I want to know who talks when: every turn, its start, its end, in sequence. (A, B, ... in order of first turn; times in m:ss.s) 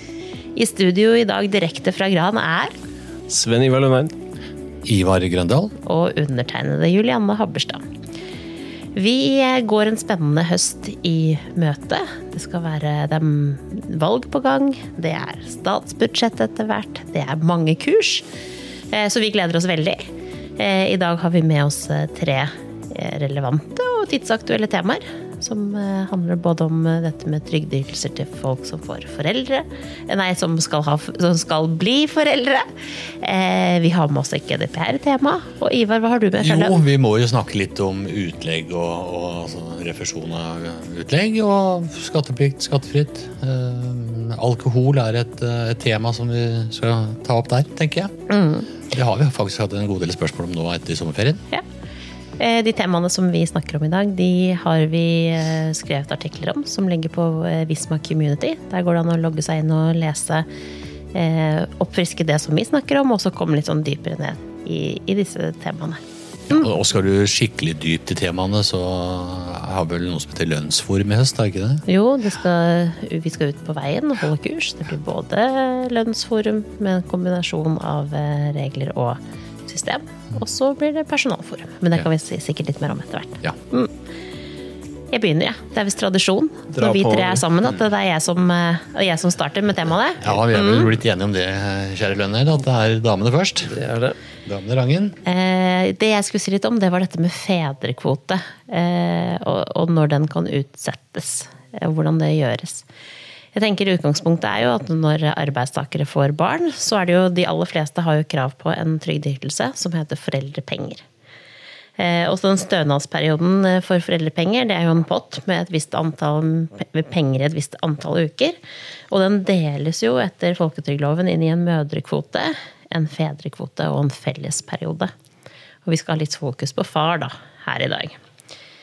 0:00.5-0:02.7 A
0:03.3-0:04.1 B
0:04.8-0:05.7 C
0:05.8-0:07.8 A
0:08.9-0:18.2 A
0:18.9-0:20.0 A
0:20.6-0:32.7 A
0:33.2-0:36.8 A
0:36.4-0:48.1 C
0:48.3-0:48.7 A
0:48.9-0:51.4 C
0:52.4-1:00.4 A
1:01.1-1:06.0 A
1:06.5-1:11.8 C
1:11.9-1:23.9 A
1:25.1-1:30.9 A
1:26.7-1:27.7 B
1:30.2-1:33.8 C
1:33.7-1:34.2 B
1:34.4-1:35.2 C
1:35.2-1:42.8 A
1:43.5-1:51.0 A
1:52.0-1:58.6 A
1:59.1-2:05.1 A
2:05.8-2:08.2 A